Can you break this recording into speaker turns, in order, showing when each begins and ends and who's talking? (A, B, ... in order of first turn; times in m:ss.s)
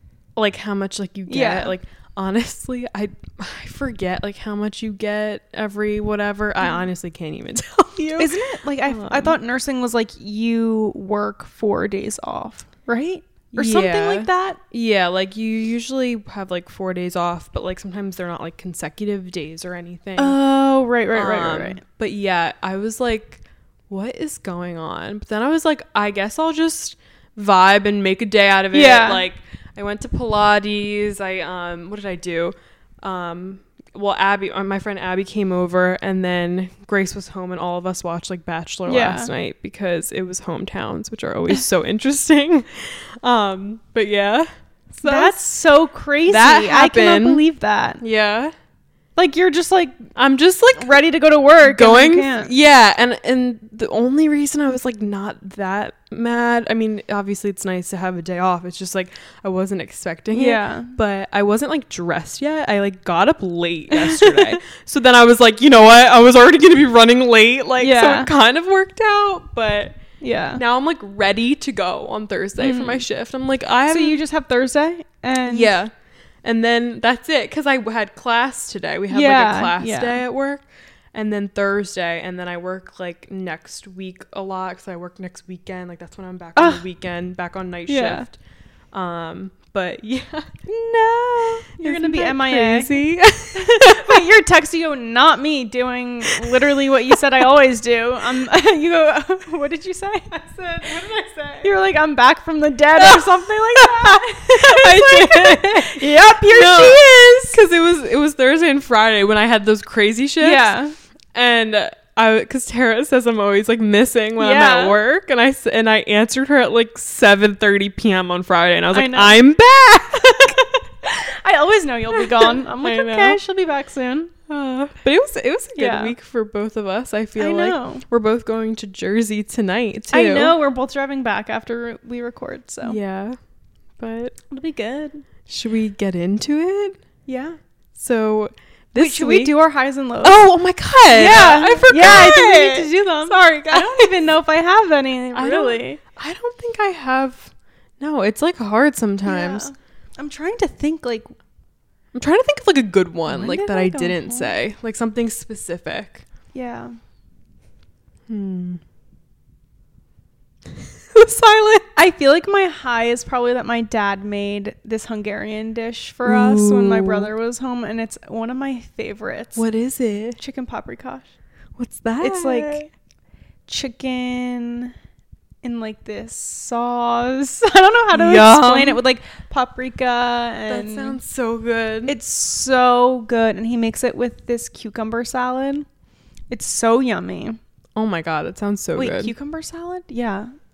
0:00.4-0:09.4 A
0:01.3-0:01.7 B
0:06.6-0:06.8 B
0:08.0-0:14.6 B
0:13.6-0:20.4 A
0:20.2-0:21.8 B
0:21.1-0:45.4 A
0:28.7-0:29.2 B
0:38.9-0:39.3 B
0:45.0-0:48.0 B
0:46.3-0:47.4 A
0:48.0-0:48.5 A
0:49.2-0:50.0 B
0:50.2-0:51.0 A
0:50.8-0:52.5 B
0:51.6-1:10.0 A
1:00.3-1:01.0 B
1:03.9-1:04.6 B
1:07.8-1:08.3 B
1:10.2-1:10.6 B
1:10.6-1:14.2 A
1:12.6-1:13.0 B
1:13.9-1:15.8 B
1:15.5-1:15.9 A
1:16.4-1:28.4 A
1:19.1-1:20.2 B
1:26.6-1:26.8 B
1:27.9-1:28.3 B
1:28.9-1:30.5 A
1:30.7-1:33.0 B
1:31.8-1:34.3 A
1:33.5-1:40.3 B
1:36.3-1:36.8 A
1:40.3-1:41.7 A
1:41.6-1:47.6 B
1:43.0-1:50.7 A
1:50.4-1:51.0 B
1:51.3-2:00.6 A
1:54.4-1:55.0 B
1:58.9-1:59.4 B
2:00.5-2:04.4 B
2:02.2-2:03.4 A
2:04.5-2:10.6 A
2:05.8-2:06.1 B
2:07.4-2:08.0 B
2:10.1-2:13.0 B
2:12.8-2:13.4 A
2:14.0-2:14.4 A
2:14.5-2:15.2 B
2:15.5-2:17.0 A
2:17.3-2:17.6 B
2:18.0-2:19.5 A
2:19.0-2:20.4 B
2:20.2-2:24.1 A
2:21.1-2:26.0 B
2:25.3-2:29.7 A
2:29.3-2:31.3 B
2:32.1-2:36.3 A
2:33.3-2:34.5 B
2:36.5-2:37.0 B
2:38.3-2:38.8 A
2:41.1-2:41.9 A
2:42.0-2:49.6 B
2:46.2-2:47.3 A
2:49.6-2:50.4 A
2:50.4-2:51.3 B
2:51.8-2:52.8 A
2:52.2-2:52.9 B
2:53.7-2:54.9 B
2:55.6-3:01.2 B
2:58.1-2:59.0 A
3:00.7-3:02.2 A
3:02.1-3:05.9 B
3:06.5-3:07.6 B
3:08.0-3:09.3 A
3:09.0-3:10.5 B